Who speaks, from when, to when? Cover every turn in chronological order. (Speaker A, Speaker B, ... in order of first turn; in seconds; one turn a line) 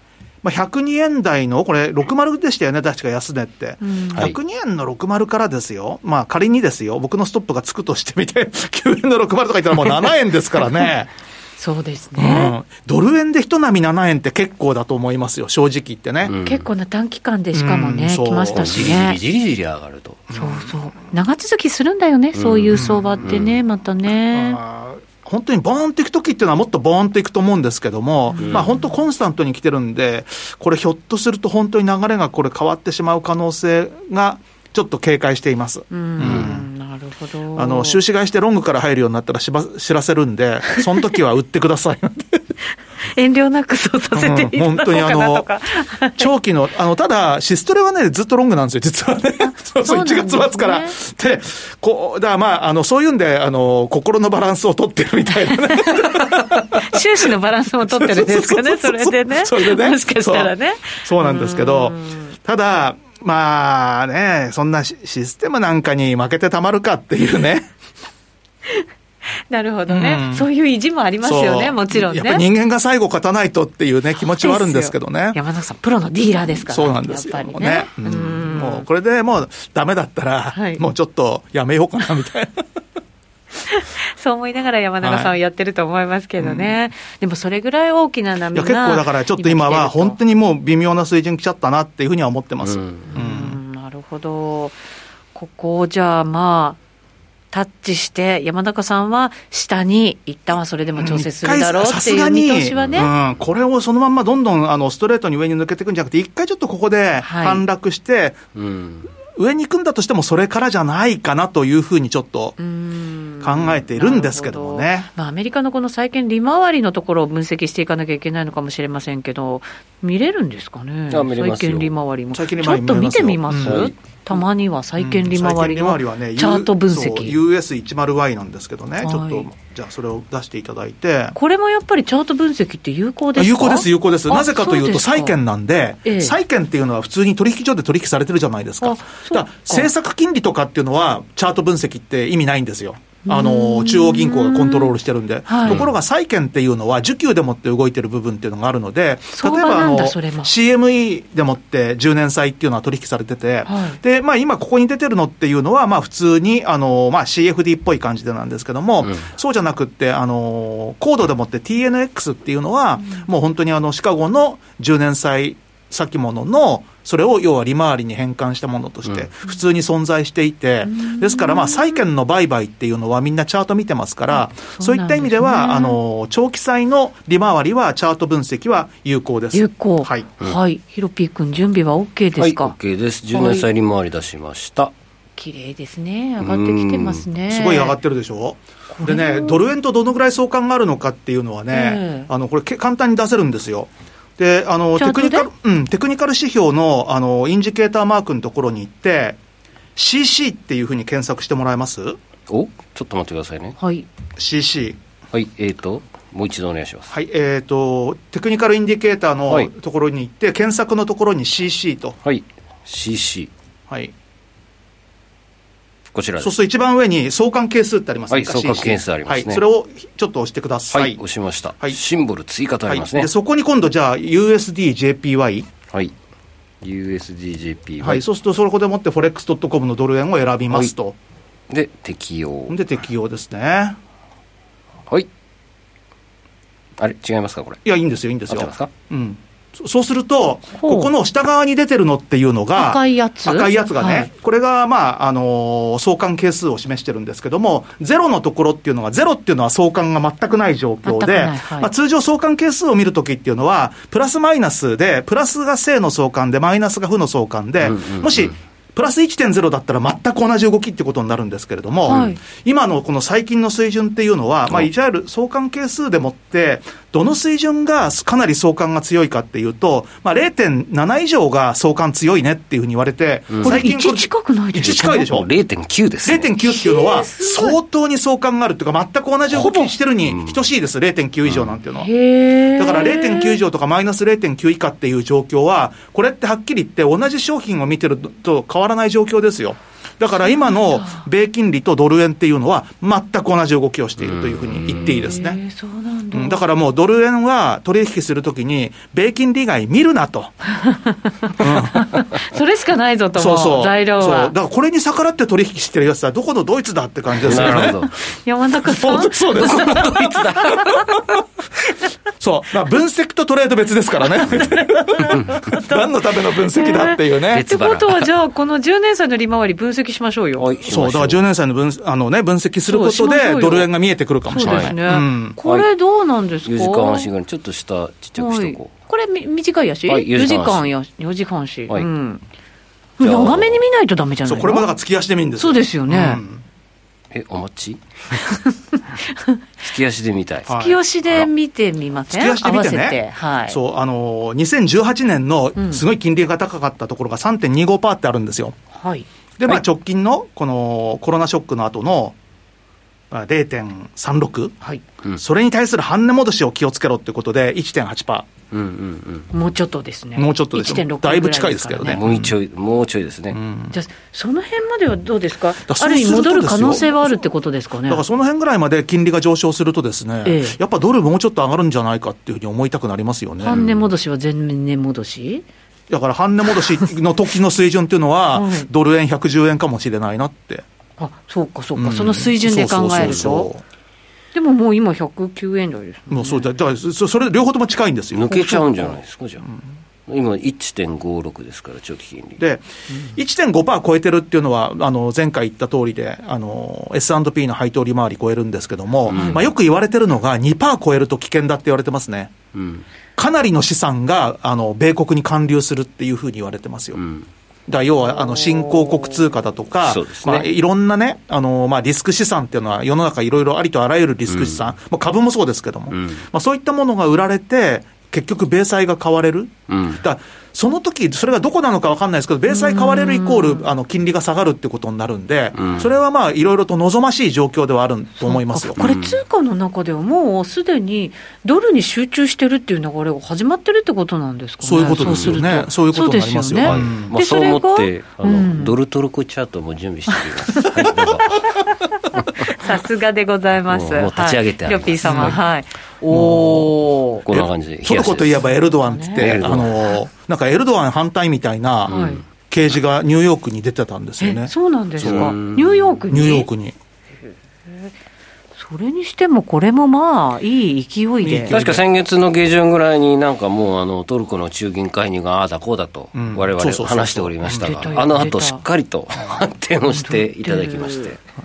Speaker A: 0.4-11.1
Speaker B: 3.8-4.3
Speaker B: 11.6-12.5
Speaker A: 12.2-16.3
Speaker C: 16.3-16.7
Speaker B: 16.4-19.2
Speaker A: 17.5-18.9
Speaker C: 18.5-20.2
Speaker B: 20.3-24.6
Speaker A: 20.3-20.7
Speaker C: 22.3-23.5
Speaker A: 22.7-23.4
Speaker A: 24.3-36.7
Speaker B: 28.3-28.8
Speaker B: 35.9-38.0
Speaker C: 36.2-36.5
Speaker A: 37.5-42.4
Speaker B: 43.1-46.3
Speaker A: 44.1-45.5
Speaker A: 46.2-57.1
Speaker B: 49.8-51.0
Speaker B: 55.5-62.3
Speaker A: 57.9-60.5
Speaker A: 61.0-67.7
Speaker B: 69.5-72.4
Speaker A: 69.9-70.5
Speaker A: 71.2-75.4
Speaker B: 74.2-78.8
Speaker A: 76.7-82.6
Speaker B: 80.5-80.8
Speaker B: 83.7-90.2
Speaker A: 85.0-85.3
Speaker A: 86.4-86.7
Speaker A: 88.5-93.6
Speaker C: 92.6-93.1
Speaker B: 93.1-94.8
Speaker B: 95.3-96.8
Speaker B: 97.5-103.1
Speaker A: 101.0-108.4
Speaker C: 102.8-103.1
Speaker B: 107.2-107.6
Speaker C: 108.5-109.1
Speaker A: 109.3-112.6
Speaker B: 112.6-127.3
Speaker A: 113.4-115.1
Speaker C: 121.1-121.9
Speaker A: 122.3-123.9
Speaker C: 123.6-123.9
Speaker A: 125.0-131.3
Speaker B: 129.0-129.5
Speaker B: 131.3-135.3
Speaker A: 133.3-180.3
Speaker B: 136.0-136.3
Speaker B: 138.8-139.9
Speaker B: 143.2-144.9
Speaker B: 145.5-145.9
Speaker C: 145.6-145.9
Speaker B: 149.3-150.5
Speaker B: 153.7-154.0
Speaker B: 170.8-172.0
Speaker B: 174.3-176.0
Speaker B: 179.5-182.7
Speaker C: 182.4-184.9
Speaker B: 183.3-183.7
Speaker B: 185.4-188.0
Speaker C: 186.4-187.2
Speaker A: 187.5-199.4
Speaker B: 188.9-189.6
Speaker B: 191.7-192.3
Speaker B: 195.0-195.5
Speaker A: 199.9-202.2
Speaker C: 202.5-203.8
Speaker B: 203.8-204.1
Speaker A: 204.4-205.0
Speaker C: 205.3-207.1
Speaker A: 207.1-212.2
Speaker C: 212.2-213.5
Speaker C: 216.1-216.5
Speaker A: 216.4-221.2
Speaker C: 218.3-219.6
Speaker C: 220.9-223.3
Speaker A: 222.9-225.7
Speaker C: 226.8-228.2
Speaker A: 228.0-231.1
Speaker C: 231.7-232.8
Speaker A: 232.7-234.0
Speaker C: 237.0-237.8
Speaker A: 237.8-275.5
Speaker C: 238.5-238.9
Speaker B: 240.8-241.1
Speaker B: 242.7-244.3
Speaker B: 251.0-251.9
Speaker C: 257.8-258.5
Speaker B: 262.1-262.4
Speaker C: 273.5-273.8
Speaker B: 273.6-275.3
Speaker C: 274.8-276.5
Speaker A: 276.2-282.1
Speaker B: 276.6-277.8
Speaker B: 279.5-279.9
Speaker C: 280.3-280.6
Speaker C: 281.4-281.7
Speaker B: 281.9-283.6
Speaker A: 282.8-295.6
Speaker B: 290.4-291.2
Speaker C: 294.2-295.2
Speaker B: 294.9-296.6
Speaker A: 296.3-300.6
Speaker B: 300.7-304.5
Speaker A: 301.6-302.2
Speaker A: 303.4-308.1
Speaker C: 307.4-308.1
Speaker B: 307.6-307.9
Speaker B: 308.4-311.1
Speaker A: 308.8-311.2
Speaker C: 309.6-310.8
Speaker A: 312.4-317.6
Speaker B: 314.3-320.7
Speaker C: 315.3-315.6
Speaker C: 317.5-318.3
Speaker C: 320.6-321.5
Speaker A: 320.9-325.6
Speaker B: 322.9-323.9
Speaker B: 324.4-327.3
Speaker C: 324.6-324.9
Speaker C: 326.6-329.0
Speaker B: 328.4-332.4
Speaker C: 330.1-330.9
Speaker B: 333.2-334.9
Speaker C: 333.2-333.8
Speaker A: 334.5-336.6
Speaker B: 335.6-336.4
Speaker C: 337.3-338.0
Speaker B: 338.4-339.6
Speaker C: 339.8-340.7
Speaker A: 340.7-341.0
Speaker B: 340.7-343.8
Speaker A: 342.3-348.8
Speaker B: 345.8-346.0
Speaker B: 348.9-349.2
Speaker A: 349.6-352.4
Speaker A: 353.3-354.8
Speaker A: 355.4-358.5
Speaker C: 358.7-359.5
Speaker B: 359.5-362.2
Speaker A: 360.4-362.5
Speaker C: 362.1-363.6
Speaker A: 363.5-363.9
Speaker B: 363.9-368.2
Speaker A: 365.9-367.4
Speaker A: 368.1-373.8
Speaker B: 370.4-370.8
Speaker B: 373.6-375.6
Speaker C: 373.7-374.1
Speaker A: 376.1-380.8
Speaker B: 378.5-378.9
Speaker B: 381.2-383.7
Speaker A: 381.9-383.8
Speaker B: 384.5-386.7
Speaker A: 386.3-389.1
Speaker C: 388.3-389.6
Speaker C: 390.3-392.6
Speaker A: 392.6-402.5
Speaker C: 399.3-399.7
Speaker B: 399.3-399.7
Speaker C: 402.7-403.0
Speaker A: 403.4-407.2
Speaker C: 407.1-407.5
Speaker A: 407.9-429.0
Speaker C: 410.0-410.7
Speaker C: 414.5-414.8
Speaker C: 416.1-416.4
Speaker C: 419.9-420.2
Speaker B: 422.7-423.9
Speaker C: 425.7-426.1
Speaker B: 428.4-438.9
Speaker C: 429.0-429.4
Speaker A: 434.8-437.3
Speaker C: 435.1-435.6
Speaker C: 436.8-441.7
Speaker B: 440.7-441.7
Speaker B: 442.3-447.5
Speaker C: 442.6-442.9
Speaker C: 443.9-445.6
Speaker A: 445.2-445.6
Speaker A: 446.3-446.9
Speaker C: 447.5-448.7
Speaker A: 447.5-455.6
Speaker B: 449.0-449.7
Speaker C: 449.4-449.9
Speaker C: 452.1-452.4
Speaker B: 452.1-452.4
Speaker B: 454.4-456.7
Speaker C: 455.2-456.0
Speaker A: 456.3-456.9
Speaker B: 457.9-458.1
Speaker B: 458.8-461.7
Speaker A: 461.4-462.0
Speaker C: 461.7-471.4
Speaker A: 466.3-467.9
Speaker B: 467.8-468.8
Speaker B: 470.2-471.3